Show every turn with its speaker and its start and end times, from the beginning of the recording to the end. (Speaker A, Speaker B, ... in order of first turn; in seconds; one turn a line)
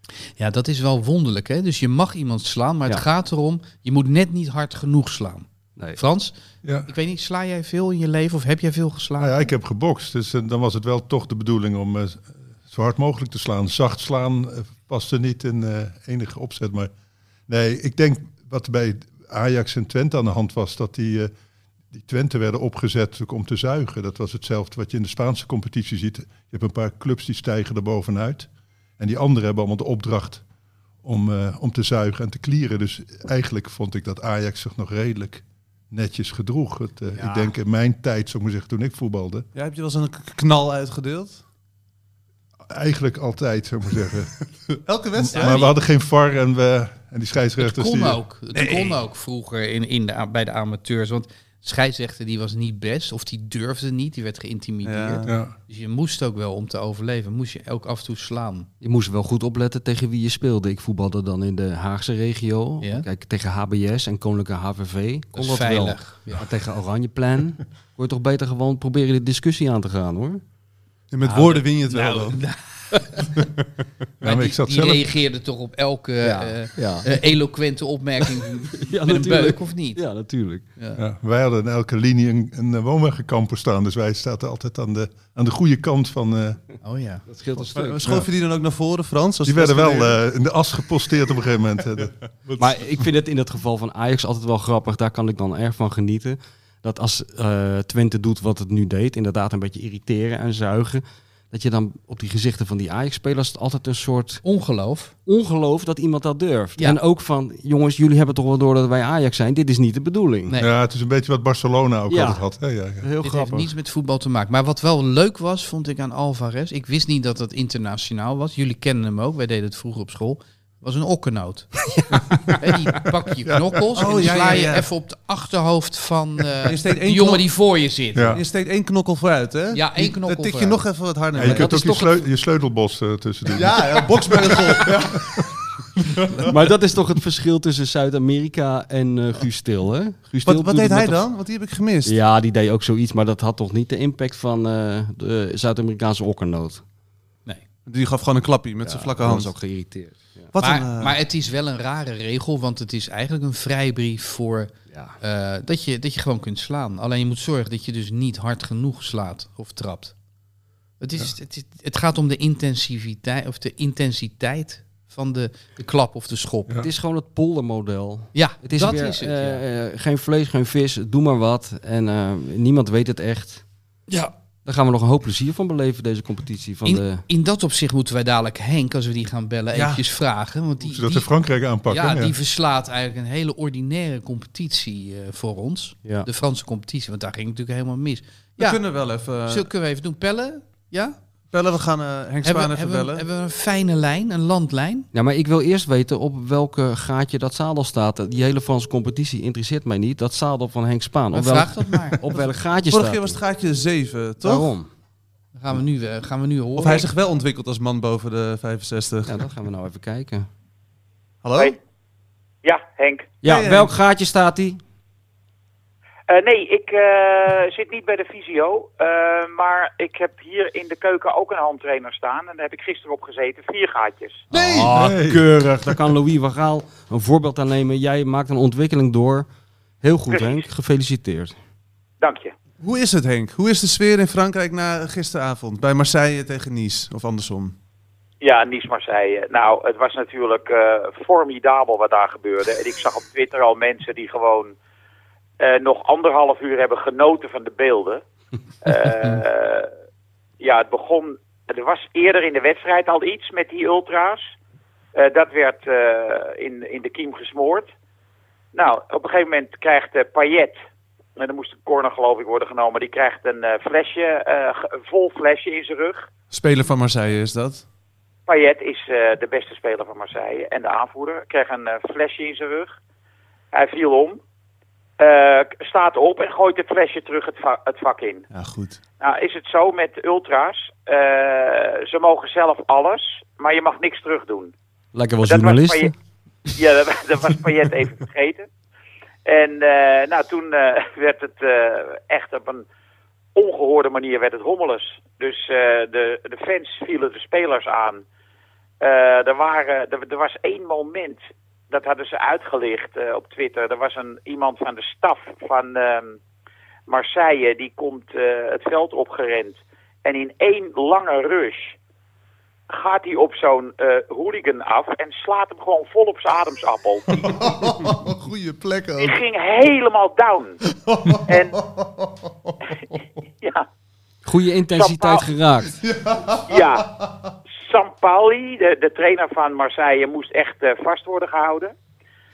Speaker A: 0.4-6.3
Speaker B: 6.6-6.9
Speaker A: 6.8-9.4
Speaker B: 9.2-16.9
Speaker B: 17.5-21.3
Speaker B: 21.9-30.4
Speaker B: 31.0-39.5
Speaker C: 37.1-37.5
Speaker D: 39.5-41.4
Speaker B: 42.7-44.4
Speaker D: 44.8-45.7
Speaker B: 45.1-48.2
Speaker A: 47.6-58.7
Speaker D: 48.5-49.0
Speaker D: 54.8-55.3
Speaker B: 55.3-55.5
Speaker C: 58.8-70.4
Speaker A: 65.3-66.4
Speaker D: 71.1-72.4
Speaker A: 71.2-73.3
Speaker B: 74.2-75.1
Speaker A: 74.2-80.0
Speaker C: 76.2-77.1
Speaker C: 78.7-80.6
Speaker A: 80.8-81.0
Speaker B: 81.0-86.6
Speaker A: 86.8-87.2
Speaker C: 87.3-88.2
Speaker D: 87.6-90.2
Speaker B: 89.4-92.9
Speaker C: 92.6-104.4
Speaker A: 104.4-105.1
Speaker C: 105.2-110.5
Speaker B: 110.6-113.1
Speaker C: 112.1-112.4
Speaker C: 113.0-113.7
Speaker A: 113.2-121.9
Speaker A: 122.6-128.4
Speaker B: 123.5-124.2
Speaker D: 123.9-124.9
Speaker D: 126.7-127.6
Speaker B: 128.1-128.4
Speaker D: 128.3-132.0
Speaker A: 129.7-130.8
Speaker B: 131.3-134.9
Speaker C: 131.4-132.1
Speaker D: 133.5-135.4
Speaker C: 136.4-141.3
Speaker D: 140.4-142.1
Speaker C: 142.0-146.8
Speaker D: 147.8-149.5
Speaker C: 148.8-150.5
Speaker D: 150.5-151.2
Speaker A: 150.6-160.1
Speaker C: 154.9-155.2
Speaker A: 161.0-166.8
Speaker C: 166.8-173.6
Speaker A: 168.3-169.6
Speaker C: 174.6-177.2
Speaker A: 176.8-181.3
Speaker D: 179.7-180.0
Speaker B: 180.8-182.3
Speaker A: 181.8-191.2
Speaker D: 188.6-189.7
Speaker D: 191.5-193.2
Speaker A: 192.4-195.1
Speaker C: 195.1-203.4
Speaker A: 201.3-202.2
Speaker D: 202.9-204.7
Speaker C: 204.4-204.9
Speaker A: 205.6-207.1
Speaker D: 206.8-209.4
Speaker C: 209.2-210.5
Speaker D: 211.4-211.8
Speaker E: 212.6-213.3
Speaker C: 213.4-214.8
Speaker D: 213.4-213.9
Speaker E: 216.3-224.4
Speaker C: 224.5-229.4
Speaker B: 224.5-226.1
Speaker C: 230.0-231.5
Speaker E: 230.3-230.6
Speaker E: 232.2-232.5
Speaker D: 232.8-237.7
Speaker E: 238.4-244.7
Speaker E: 245.6-248.2
Speaker E: 248.8-249.9
Speaker E: 250.6-254.4
Speaker E: 255.2-257.9
Speaker E: 258.7-260.7
Speaker E: 261.4-266.3
Speaker D: 266.5-267.8
Speaker E: 268.5-272.9
Speaker E: 273.7-274.4
Speaker E: 275.2-278.5
Speaker D: 278.5-279.0
Speaker E: 279.2-284.7
Speaker C: 285.1-286.1
Speaker E: 285.4-286.1
Speaker E: 286.8-288.7
Speaker E: 289.4-292.8
Speaker E: 293.5-298.2
Speaker E: 299.0-306.4
Speaker E: 307.1-311.9
Speaker E: 312.9-317.3
Speaker D: 317.3-319.4
Speaker E: 319.2-320.8
Speaker D: 320.9-322.1
Speaker E: 321.4-321.8
Speaker C: 324.4-325.9
Speaker E: 324.9-325.5
Speaker D: 326.0-326.7
Speaker E: 326.7-327.1
Speaker E: 327.8-331.9